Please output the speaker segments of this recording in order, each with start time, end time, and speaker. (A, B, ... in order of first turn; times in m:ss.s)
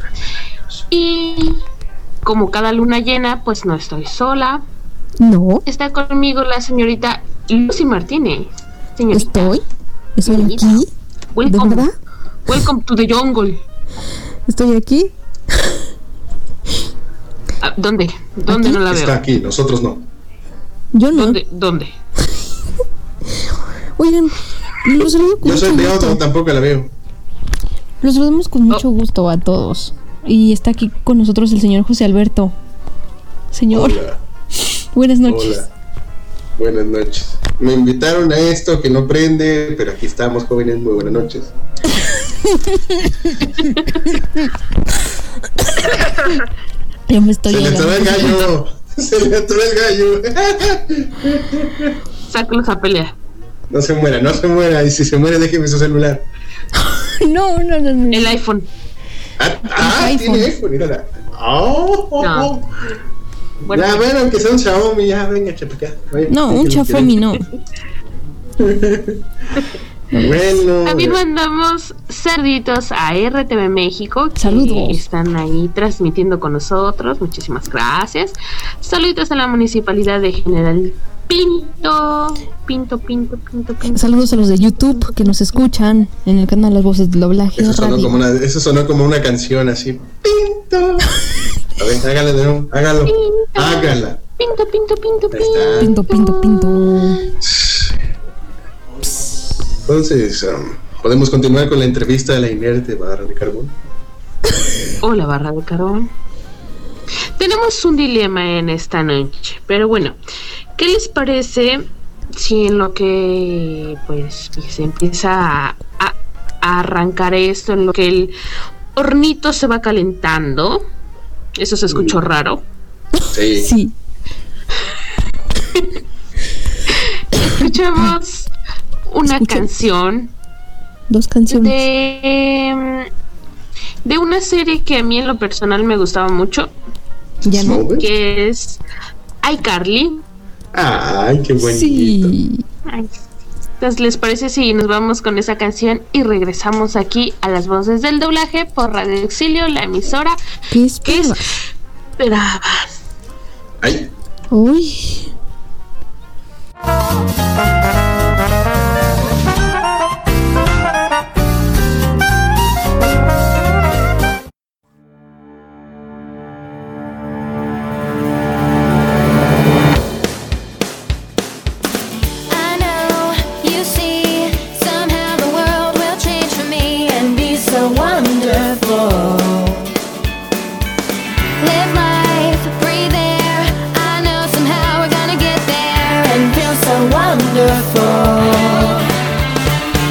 0:00.9-0:01.6 A
0:02.2-0:04.6 A
0:05.2-0:05.6 B
0:05.7-0:09.6 A
0:09.1-0:09.6 B
0:10.2-0:10.9 B
0:10.3-0:11.9 A
0:11.5-0:11.9 B
0:12.5-0:13.6 A
0:14.5-0:15.8 B
0:17.6-0:19.2 A
0:18.5-0:18.8 B
0:18.9-0:20.1 C
0:20.9-0:21.4 B
0:21.1-0:21.9 A
0:23.4-0:26.2 B
0:25.4-0:26.9 C
0:28.0-0:32.6 B
0:33.5-0:34.0 B
0:33.7-0:34.2 C
0:34.9-0:35.6 B
0:35.3-0:35.7 C
0:36.6-0:41.5 C
0:42.3-0:43.1 B
0:47.1-0:48.5 B
0:47.5-0:52.0 C
0:52.3-0:53.2 A
0:53.7-0:56.2 C
0:56.8-0:58.4 B
0:58.1-0:58.7 A
0:59.4-1:02.7 C
0:59.8-1:00.6 B
1:02.2-1:02.5 A
1:03.7-1:04.1 A
1:03.7-1:07.2 C
1:06.3-1:07.4 B
1:08.6-1:09.2 C
1:10.2-1:11.2 C
1:10.8-1:24.1 A
1:14.4-1:15.0 B
1:23.9-1:28.2 B
1:24.8-1:25.3 A
1:27.6-1:31.1 C
1:31.8-1:34.2 C
1:33.1-1:37.0 A
1:35.3-1:35.9 C
1:35.8-1:37.2 B
1:37.4-1:37.9 C
1:39.9-1:43.8 C
1:45.0-1:46.1 A
1:47.4-1:50.2 A
1:50.8-1:58.4 A
1:59.0-2:00.8 A
2:01.6-2:02.6 A
2:01.9-2:02.2 C
2:03.3-2:03.7 C
2:03.5-2:03.9 B
2:06.9-2:08.5 A
2:09.1-2:10.3 A
2:09.3-2:09.7 B
2:11.1-2:11.8 B
2:11.5-2:13.1 A
2:14.0-2:16.8 A
2:17.4-2:17.8 B
2:17.5-2:18.1 C
2:17.9-2:18.8 A
2:19.4-2:20.2 A
2:20.7-2:22.3 C
2:21.6-2:22.6 B
2:22.9-2:23.2 A
2:23.8-2:30.4 A
2:30.7-2:31.4 B
2:31.0-2:31.4 A
2:32.2-2:33.0 A
2:33.8-2:34.1 C
2:34.5-2:35.3 B
2:52.5-2:59.9 D
3:01.6-3:09.1 D